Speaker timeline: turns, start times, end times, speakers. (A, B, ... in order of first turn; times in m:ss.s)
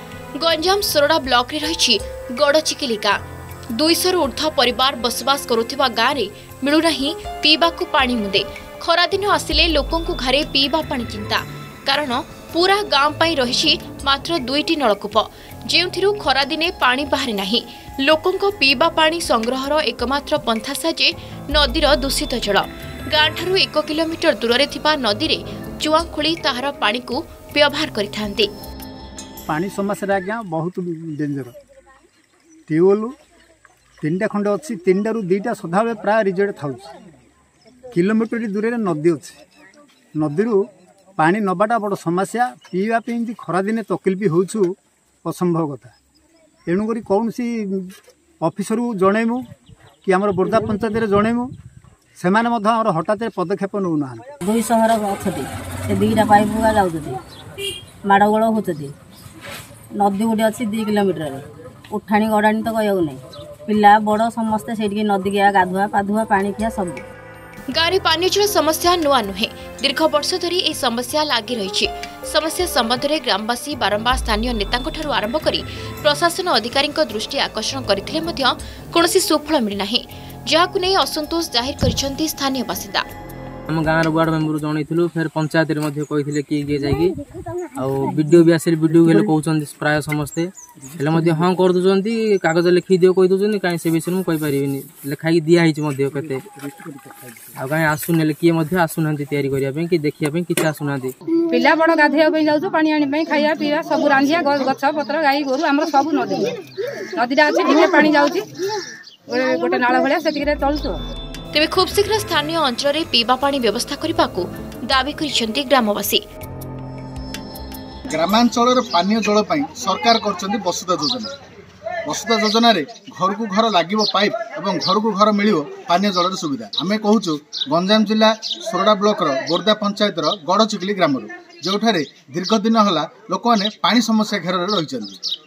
0:00.4-0:03.2 A
0:03.8-0:28.5 A
0:29.5-0:31.5 B
0:32.7-0:33.1 B
0:34.0-0:36.9 B
0:37.9-0:39.4 B
0:40.2-0:40.6 B
0:41.2-0:44.7 B
0:45.2-0:45.9 B
0:46.7-0:49.4 B
0:50.0-0:51.5 B
0:52.2-0:54.3 B
0:54.4-0:57.2 C
0:58.1-0:58.9 C
1:00.0-1:07.0 C
1:07.7-1:23.0 A
1:23.7-1:27.2 D
1:27.8-1:36.4 D
1:36.7-1:37.1 B
1:37.6-1:41.1 D
1:41.5-1:48.5 E
1:49.3-1:51.0 E
1:51.5-1:56.2 A
1:58.1-2:01.3 F
2:02.1-2:15.2 F